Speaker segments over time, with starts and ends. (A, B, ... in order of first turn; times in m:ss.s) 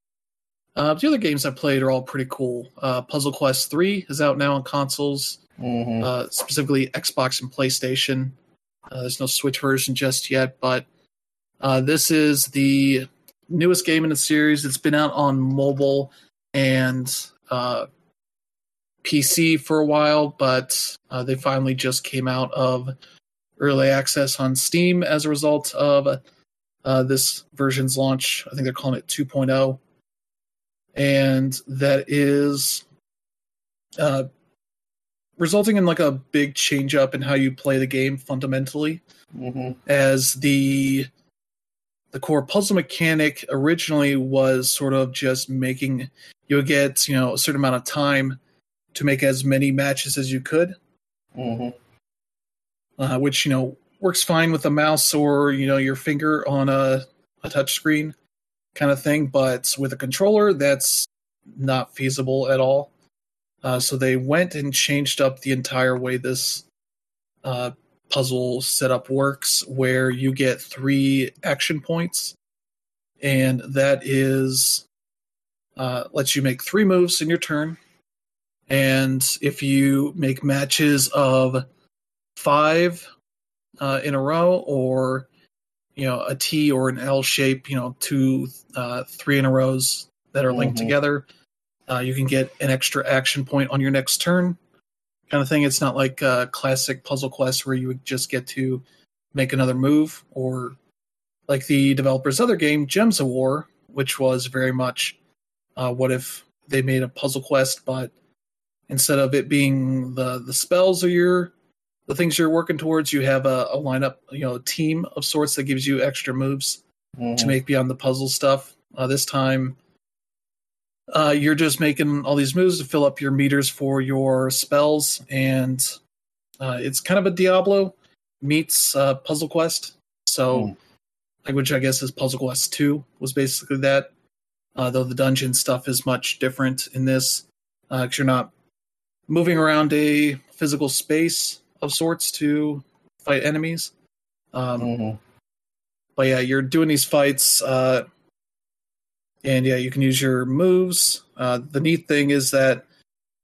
0:00.8-0:05.4 A
0:05.6-0:06.1 B
0:06.0-0:08.4 A
0:08.9-0:10.9 A
0:11.6-0:17.9 A
0:19.0-0:22.9 A
0:23.6-0:26.2 A
0:26.8-0:29.8 A
0:30.9-0:32.8 A
0:34.0-0:34.3 A
0:35.4-0:39.0 A
0:39.3-0:39.8 B
0:39.9-0:41.1 A
0:42.1-0:48.4 A
0:48.9-0:50.8 A
0:51.4-0:51.7 B
0:53.0-0:58.1 A
0:58.8-1:02.9 A
1:03.6-1:06.6 A
1:07.4-1:12.4 A
1:13.2-1:14.9 A
1:15.8-1:17.8 A
1:18.7-1:21.6 A
1:22.4-1:23.0 A
1:23.8-1:25.3 A
1:26.0-1:31.2 A
1:30.5-1:30.9 B
1:31.9-1:34.6 A
1:35.3-1:40.8 A
1:41.5-1:45.2 A
1:45.8-1:48.1 A
1:48.9-1:51.5 A
1:52.1-1:56.8 A
1:57.2-1:57.5 B
1:57.4-1:59.8 A
2:01.1-2:05.9 A
2:06.6-2:10.7 A
2:11.4-2:14.1 A
2:14.8-2:18.5 A
2:19.3-2:23.9 A
2:24.5-2:24.9 A
2:24.8-2:25.2 B
2:26.2-2:28.0 A
2:29.4-2:32.8 A